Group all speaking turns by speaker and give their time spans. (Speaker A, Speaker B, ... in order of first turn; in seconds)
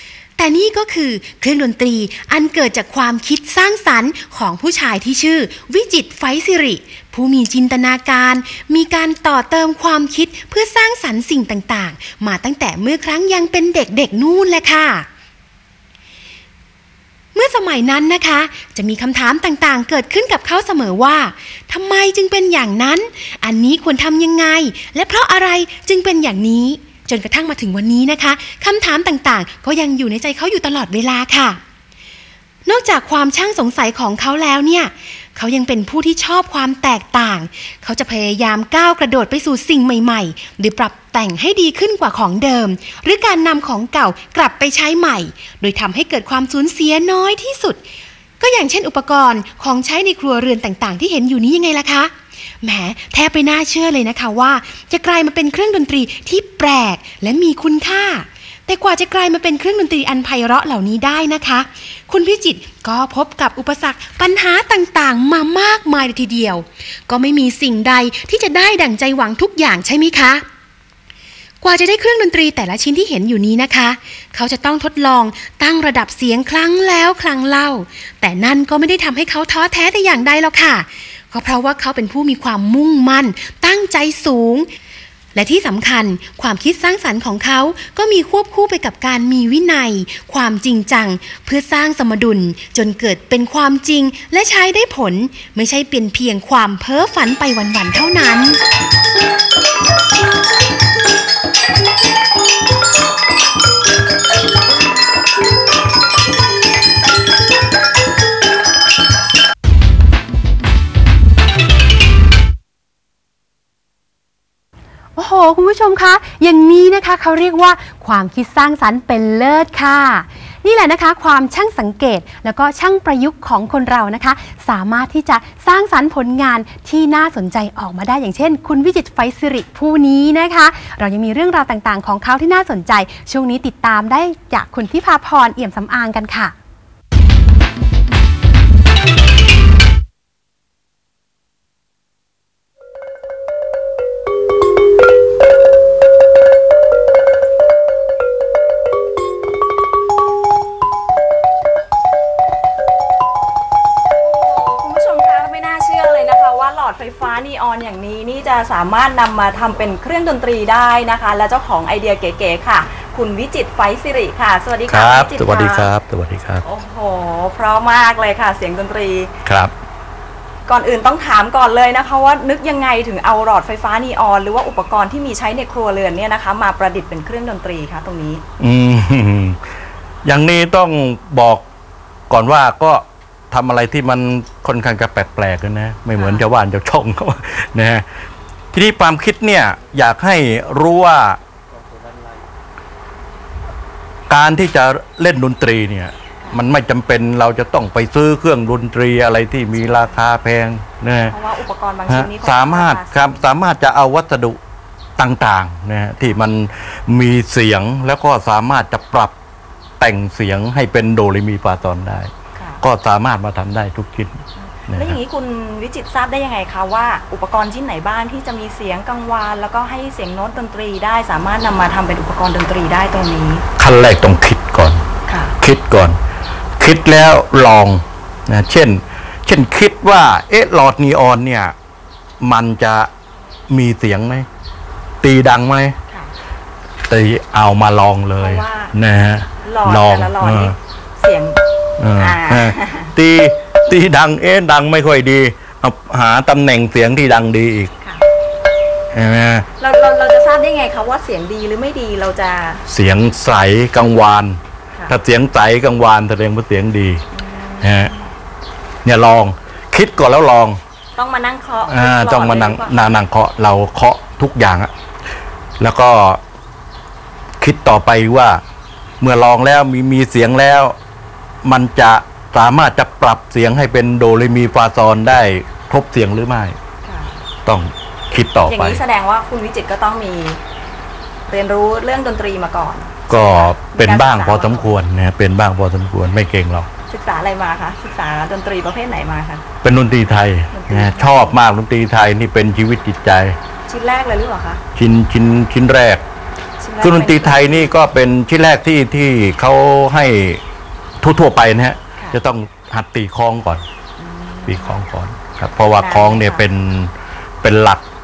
Speaker A: 0.4-15.1, 17.3-31.6, 32.6-47.8, 48.4-70.4, 71.6-84.7, 85.3-98.6, 115.2-136.5
Speaker B: 154.2-165.9, 166.6-169.3, 170.7-178.4, 186.2-186.4, 199.8-200.3, 201.3-203.4, 212.6-212.8, 214.7-223.6, 225.3-225.5, 238.4-238.9, 239.6-241.6, 242.2-243.1, 249.8-252.8, 257.3-258.3, 261.1-263.1, 277.0-277.4, 278.7-280.6, 281.5-284.9, 287.1-289.6, 290.7-291.6, 293.9-294.8, 296.8-297.9, 304.2-305.0, 305.9-306.7
Speaker C: 164.9-166.6, 169.4-169.7, 178.6-179.6, 180.2-181.6, 182.3-188.0, 188.7-191.4, 194.3-201.3, 202.1-204.6, 205.2-209.3, 210.0-215.2, 223.8-225.0, 225.6-226.2, 226.8-231.7, 232.4-233.1, 233.7-234.5, 235.2-236.0, 237.1-240.7, 242.0-247.9, 249.1-249.7, 252.9-257.2, 257.8-258.1, 259.0-260.8, 261.9-264.9, 265.8-266.4, 267.6-268.6, 269.2-270.9, 271.6-276.8, 277.6-279.0, 283.3-286.9, 289.8-293.6, 294.9-296.2, 297.0-300.6, 301.2-303.8, 304.7-308.0